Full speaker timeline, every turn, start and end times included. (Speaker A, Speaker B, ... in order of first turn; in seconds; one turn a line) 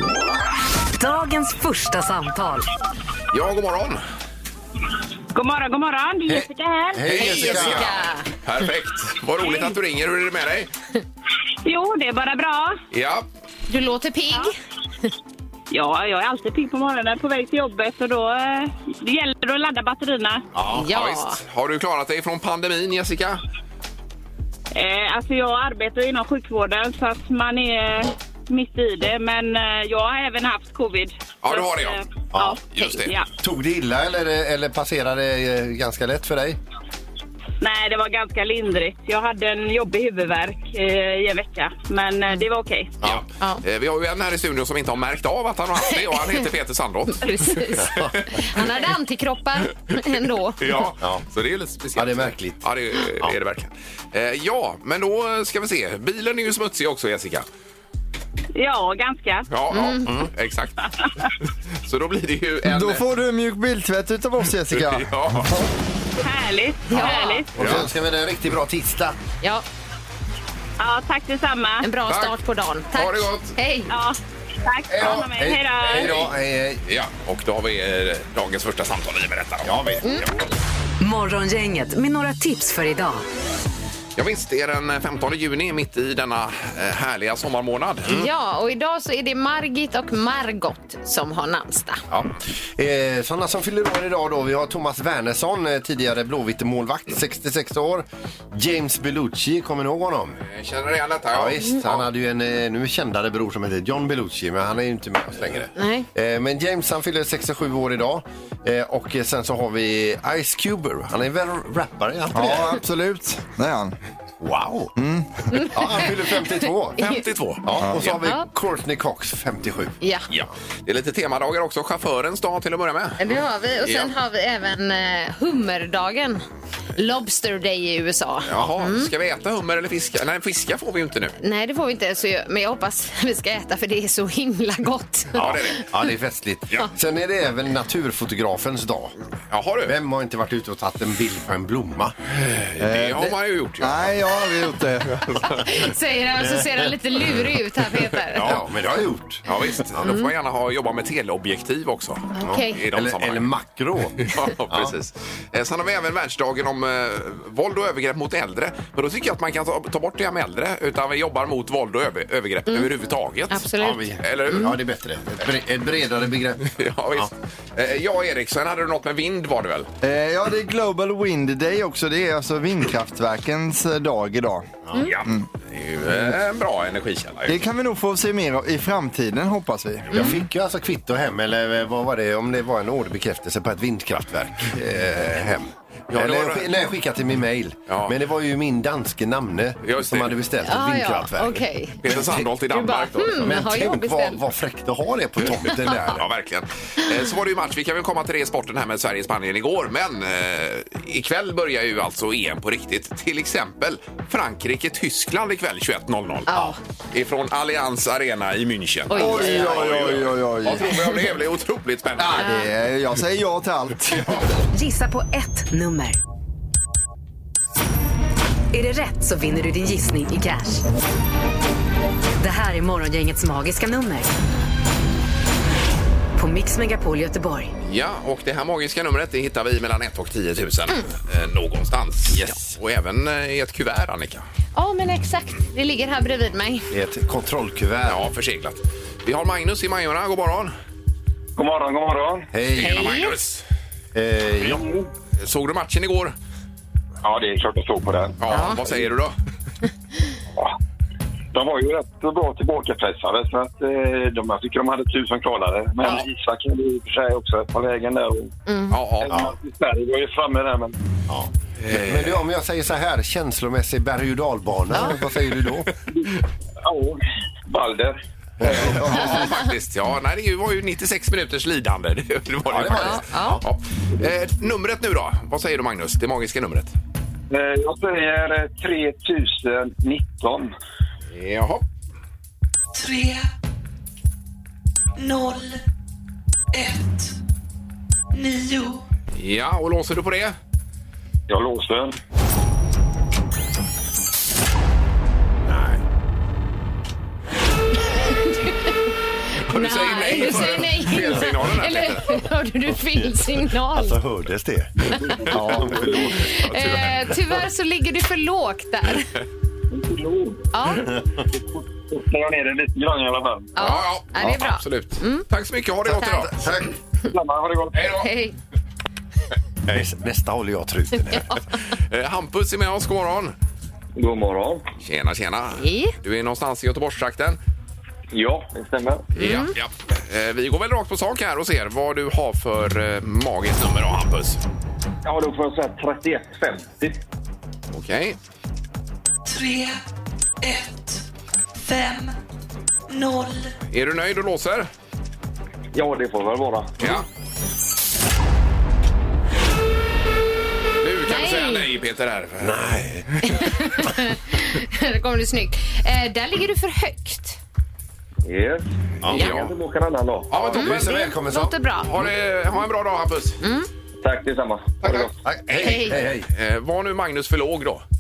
Speaker A: 1.0-2.7
Speaker B: 3.3-4.0
Speaker C: 5.3-7.3
Speaker D: 6.3-8.1
Speaker B: 7.1-10.7
Speaker E: 7.1-8.3
Speaker C: 11.7-12.8
Speaker B: 12.9-13.3
Speaker E: 13.7-14.6
Speaker C: 15.7-20.5
Speaker D: 20.6-20.9
Speaker E: 20.7-21.4
Speaker B: 20.8-23.4
Speaker C: 24.7-33.3
Speaker B: 31.4-32.0
Speaker D: 32.3-32.6
Speaker B: 32.7-33.2
Speaker D: 33.4-36.6
Speaker C: 37.6-43.0
Speaker B: 43.0-48.5
Speaker E: 45.9-46.5
Speaker E: 47.1-50.6
Speaker D: 47.8-48.2
Speaker B: 50.6-57.5
Speaker D: 52.0-52.6
Speaker C: 58.5-59.5
Speaker B: 59.5-60.9
Speaker E: 59.7-60.1
Speaker B: 61.8-63.0
Speaker F: 62.6-65.7
Speaker B: 64.7-65.5
Speaker C: 66.2-67.5
Speaker E: 66.9-67.4
Speaker D: 67.0-69.2
Speaker B: 67.6-67.9
Speaker C: 70.8-71.9
Speaker E: 71.8-73.9
Speaker B: 72.1-72.4
Speaker B: 72.9-73.5
Speaker C: 73.9-76.3
Speaker D: 74.9-76.8
Speaker B: 75.9-76.3
Speaker B: 76.8-80.3
Speaker D: 79.7-80.1
Speaker A: 81.0-83.2
Speaker B: 84.2-88.2
Speaker E: 88.1-92.0
Speaker D: 92.1-100.4
Speaker B: 100.4-102.1
Speaker D: 101.3-112.8
Speaker E: 105.8-106.1
Speaker F: 112.3-114.0
Speaker D: 114.4-114.9
Speaker F: 115.0-115.5
Speaker E: 115.5-117.2
Speaker D: 115.5-117.0
Speaker B: 117.0-118.2
Speaker D: 117.6-119.9
Speaker E: 118.2-118.5
Speaker E: 120.0-120.3
Speaker B: 120.3-123.2
Speaker E: 123.2-129.1
Speaker B: 123.8-124.1
Speaker B: 128.5-131.3
Speaker E: 131.4-135.8
Speaker B: 135.4-135.9
Speaker D: 135.4-139.1
Speaker B: 139.5-139.9
Speaker D: 139.8-142.2
Speaker B: 142.3-144.2
Speaker F: 142.8-145.5
Speaker E: 145.4-148.6
Speaker D: 146.4-146.9
Speaker D: 148.3-150.1
Speaker B: 148.3-148.7
Speaker B: 149.4-153.5
Speaker E: 150.0-150.3
Speaker E: 152.3-152.8
Speaker D: 152.4-154.9
Speaker B: 154.2-164.7
Speaker E: 163.5-164.8
Speaker D: 163.8-167.3
Speaker B: 166.7-169.9
Speaker F: 170.0-174.7
Speaker B: 175.1-177.6
Speaker F: 177.5-180.4
Speaker D: 180.1-192.5
Speaker B: 186.1-186.7
Speaker B: 187.9-188.2
Speaker B: 189.8-190.4
Speaker E: 190.6-192.0
Speaker B: 192.0-193.6
Speaker E: 192.7-194.4
Speaker D: 193.4-196.3
Speaker B: 195.6-206.6
Speaker E: 206.5-206.8
Speaker B: 207.1-212.5
Speaker E: 209.1-209.8
Speaker F: 209.1-211.2
Speaker F: 212.2-214.3
Speaker E: 212.4-212.7
Speaker A: 214.7-216.2
Speaker A: 218.7-220.8
Speaker A: 222.4-224.3
Speaker A: 226.4-227.7
Speaker B: 227.8-234.4
Speaker D: 232.3-232.8
Speaker E: 234.8-236.9
Speaker D: 236.9-238.2
Speaker B: 238.1-240.7
Speaker G: 241.6-242.5
Speaker D: 242.5-243.2
Speaker B: 242.8-243.6
Speaker E: 242.8-243.3
Speaker D: 244.1-244.8
Speaker B: 245.4-246.3
Speaker G: 247.2-248.4
Speaker B: 248.4-249.3
Speaker E: 248.5-248.8
Speaker G: 251.5-258.6
Speaker E: 258.7-259.0
Speaker B: 258.9-259.3
Speaker G: 259.2-261.0
Speaker D: 261.3-265.9
Speaker B: 261.8-262.4
Speaker E: 264.9-265.2
Speaker G: 266.8-268.2
Speaker D: 268.6-269.3
Speaker B: 268.7-276.9
Speaker F: 268.8-269.3
Speaker D: 272.7-273.6
Speaker E: 272.9-273.6
Speaker G: 277.5-280.7
Speaker B: 281.3-281.8
Speaker H: 282.9-283.5
Speaker H: 285.2-285.8
Speaker H: 286.7-287.3
Speaker H: 288.3-289.0
Speaker B: 289.4-290.6
Speaker G: 291.5-292.1
Speaker D: 295.7-296.0
Speaker E: 298.1-299.0
Speaker E: 299.6-304.2
Speaker B: 299.7-302.3
Speaker D: 300.4-301.4
Speaker D: 303.1-306.5
Speaker E: 305.1-309.3
Speaker F: 305.6-305.9
Speaker B: 306.4-307.3
Speaker G: 309.9-310.7
Speaker E: 310.7-311.1
Speaker D: 311.1-311.4
Speaker G: 311.6-313.7
Speaker E: 313.8-315.4
Speaker B: 313.8-316.6
Speaker D: 316.1-316.9
Speaker E: 316.1-316.5
Speaker G: 317.2-318.1
Speaker B: 317.9-318.3
Speaker E: 318.1-318.6
Speaker D: 319.9-321.6
Speaker E: 321.3-321.6
Speaker B: 321.9-323.6
Speaker G: 324.2-324.9
Speaker B: 325.0-327.6
Speaker E: 325.8-326.1
Speaker G: 328.3-329.3
Speaker B: 329.4-334.6
Speaker E: 329.4-329.7
Speaker G: 335.2-337.2
Speaker B: 337.9-338.4
Speaker H: 339.4-340.0
Speaker H: 340.6-341.2
Speaker H: 341.8-342.4
Speaker H: 343.1-343.7
Speaker B: 343.9-344.9
Speaker G: 345.9-347.0
Speaker B: 347.0-347.3
Speaker B: 351.0-353.0
Speaker E: 351.3-351.9
Speaker D: 352.6-353.4
Speaker E: 353.4-357.6
Speaker G: 358.4-360.6
Speaker D: 359.2-359.5
Speaker B: 359.3-359.7
Speaker B: 360.5-361.3
Speaker D: 360.7-361.8
Speaker E: 360.7-362.1
Speaker B: 362.1-363.6
Speaker E: 363.6-363.9
Speaker G: 364.2-365.4
Speaker B: 365.0-368.0
Speaker D: 365.4-366.5
Speaker E: 365.8-366.2